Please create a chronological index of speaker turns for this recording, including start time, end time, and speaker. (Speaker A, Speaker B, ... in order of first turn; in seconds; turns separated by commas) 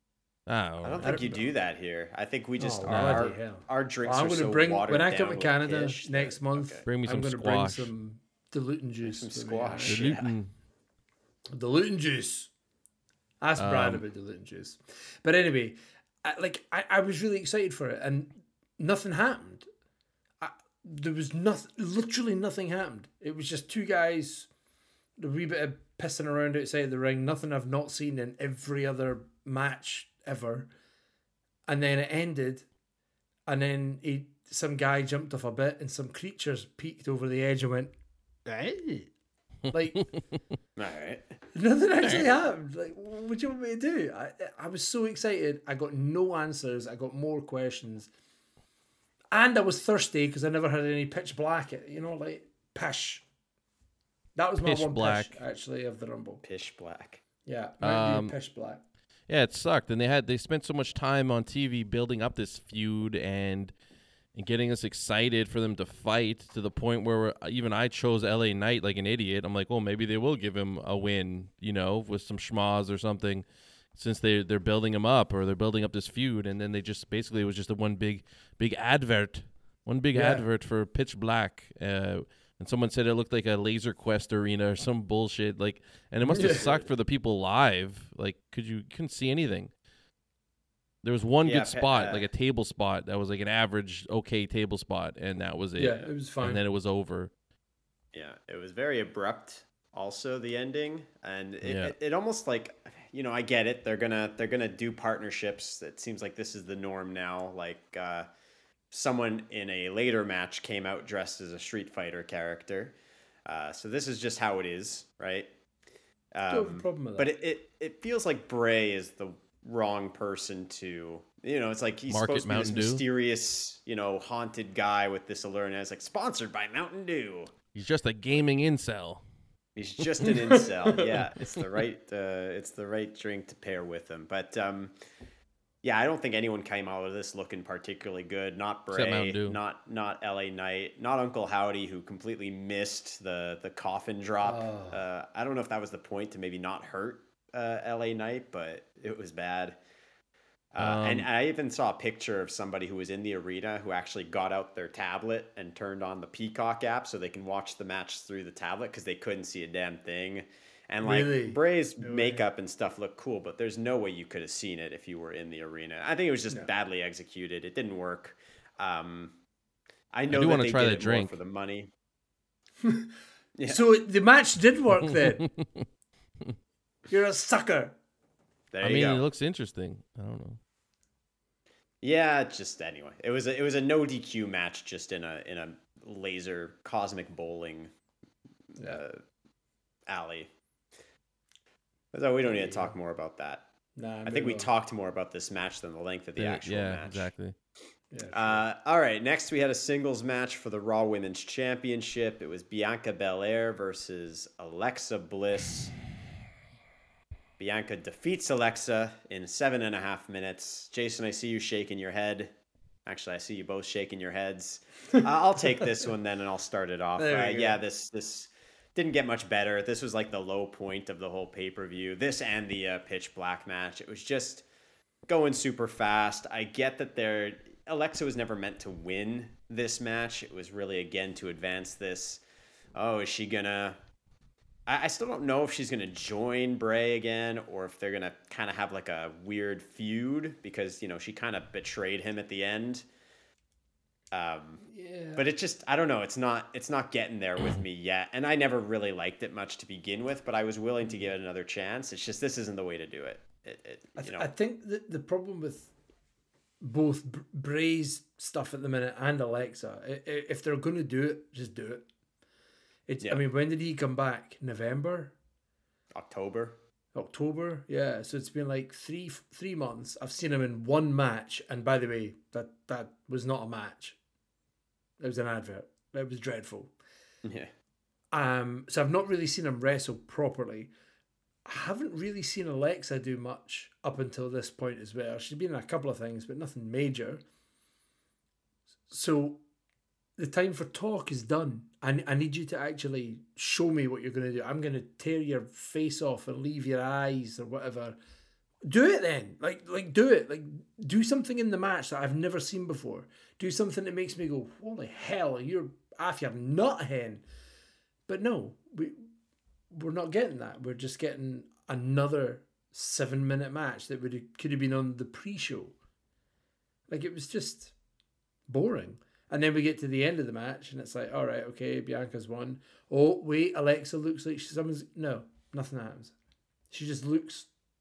Speaker A: 0.5-1.2, Speaker B: 0.8-6.8, Speaker C: 1.0-1.5, Speaker C: 2.6-10.0, Speaker A: 2.9-3.3, Speaker A: 6.9-7.9, Speaker B: 9.0-10.3, Speaker A: 9.8-10.5, Speaker C: 11.5-12.5, Speaker C: 13.4-19.7, Speaker A: 13.6-14.0, Speaker C: 20.4-24.5, Speaker C: 25.2-30.7, Speaker C: 31.7-32.7, Speaker C: 33.5-37.9, Speaker C: 38.5-39.1, Speaker C: 39.7-40.1, Speaker B: 40.8-41.3, Speaker C: 41.5-48.1, Speaker C: 49.3-53.2, Speaker C: 54.4-56.4, Speaker A: 54.6-55.4, Speaker B: 56.4-57.2, Speaker C: 57.5-58.8, Speaker A: 57.8-58.3, Speaker A: 59.3-63.7, Speaker A: 64.3-89.7, Speaker C: 80.1-80.4, Speaker C: 86.2-86.7, Speaker B: 86.4-86.9, Speaker A: 91.0-97.3, Speaker B: 91.4-92.3, Speaker C: 95.8-96.6, Speaker B: 98.1-108.3, Speaker A: 101.6-101.9, Speaker B: 108.9-115.5, Speaker B: 116.3-127.5, Speaker C: 116.5-117.3, Speaker A: 122.1-123.0, Speaker A: 127.7-129.2, Speaker B: 129.8-134.9, Speaker C: 130.2-131.1, Speaker B: 135.8-149.8, Speaker A: 138.9-139.6, Speaker C: 144.4-145.0, Speaker B: 150.7-169.4, Speaker A: 150.8-151.3, Speaker C: 161.0-162.5, Speaker B: 170.1-171.9, Speaker A: 170.3-171.4, Speaker C: 172.8-173.1, Speaker B: 173.6-173.8, Speaker C: 173.7-175.5, Speaker A: 175.4-175.9, Speaker C: 177.1-178.0, Speaker B: 178.7-179.2, Speaker A: 178.8-180.6, Speaker B: 182.0-187.9, Speaker B: 188.8-189.2, Speaker B: 190.1-190.5, Speaker B: 192.1-193.7, Speaker C: 192.4-192.9, Speaker C: 194.0-194.7, Speaker B: 194.2-197.3, Speaker A: 196.4-197.5, Speaker C: 198.1-198.7, Speaker B: 198.3-206.0, Speaker B: 207.6-212.5, Speaker B: 213.1-224.7, Speaker C: 217.2-217.8, Speaker B: 225.3-232.4, Speaker B: 233.0-234.0, Speaker B: 234.9-243.1, Speaker B: 244.3-244.8, Speaker C: 244.9-245.5, Speaker B: 245.3-254.5, Speaker C: 254.2-255.9, Speaker C: 256.8-262.1, Speaker C: 263.1-265.4, Speaker B: 266.1-266.8, Speaker C: 267.1-274.2, Speaker C: 275.2-276.9, Speaker B: 277.4-277.7, Speaker C: 278.3-280.9, Speaker C: 281.7-287.4, Speaker C: 289.1-289.6, Speaker C: 290.4-298.2, Speaker C: 298.9-307.4, Speaker C: 308.3-309.2, Speaker C: 309.9-315.9, Speaker C: 317.1-317.9, Speaker C: 318.7-326.4, Speaker C: 326.9-327.7